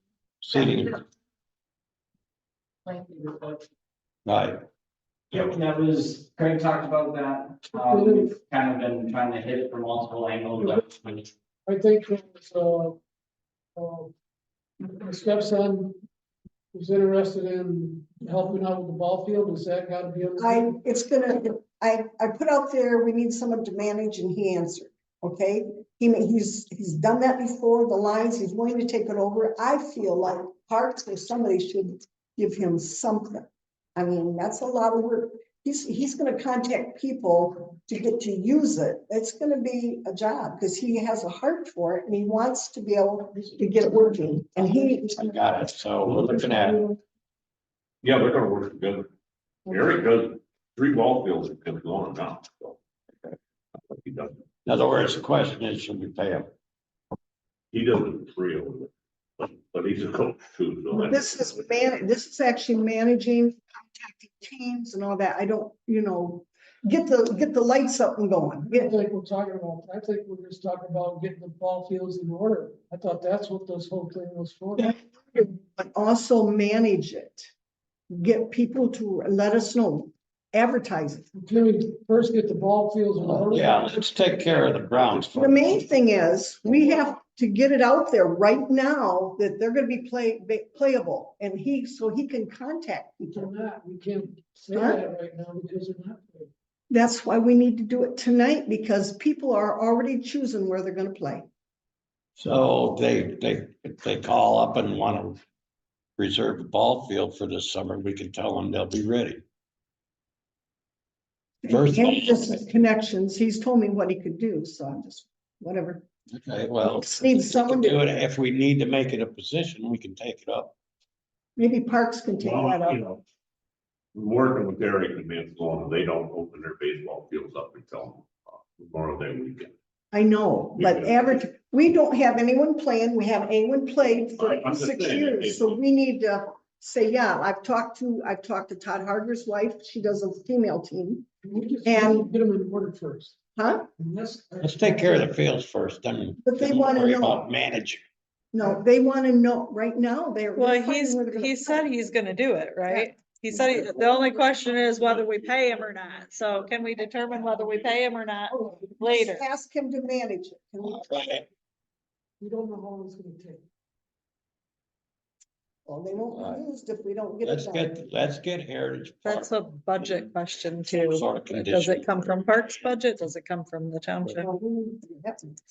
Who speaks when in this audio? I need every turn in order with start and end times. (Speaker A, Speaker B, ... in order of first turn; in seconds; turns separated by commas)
Speaker A: 0.4-1.0, Speaker B: 2.9-3.5, Speaker A: 4.2-4.6, Speaker C: 5.3-11.3, Speaker B: 7.7-8.4, Speaker B: 10.6-10.8, Speaker B: 11.7-13.0, Speaker B: 13.8-14.1, Speaker B: 14.8-16.0, Speaker B: 16.7-20.8, Speaker D: 20.4-45.4, Speaker A: 45.2-46.8, Speaker D: 46.4-47.0, Speaker E: 48.0-49.1, Speaker E: 49.7-52.8, Speaker E: 54.0-54.4, Speaker A: 54.6-56.5, Speaker E: 57.7-61.2, Speaker D: 60.9-68.9, Speaker B: 68.7-75.0, Speaker D: 74.8-77.5, Speaker D: 78.1-81.3, Speaker B: 81.3-83.9, Speaker A: 83.2-85.8, Speaker D: 85.3-93.5, Speaker B: 93.3-96.5, Speaker D: 94.7-95.0, Speaker D: 96.9-101.5, Speaker A: 102.4-105.4, Speaker A: 106.2-109.4, Speaker D: 111.6-116.1, Speaker A: 111.7-112.7, Speaker A: 116.3-120.8, Speaker D: 116.8-118.0, Speaker D: 121.6-123.0, Speaker E: 122.4-123.2, Speaker E: 124.2-129.7, Speaker D: 130.1-141.3, Speaker E: 130.8-131.2, Speaker E: 134.4-135.7, Speaker B: 141.4-143.4, Speaker D: 141.8-142.3, Speaker D: 143.6-143.9, Speaker B: 144.0-145.2, Speaker A: 144.6-148.0, Speaker D: 146.4-147.5, Speaker D: 148.5-151.9, Speaker F: 150.6-159.4, Speaker D: 152.9-153.9, Speaker D: 158.5-161.1, Speaker A: 160.8-161.5, Speaker B: 162.4-163.6, Speaker D: 165.9-168.0, Speaker A: 166.3-166.6, Speaker A: 167.4-170.3, Speaker F: 169.2-174.5, Speaker A: 170.9-172.8, Speaker D: 174.2-175.5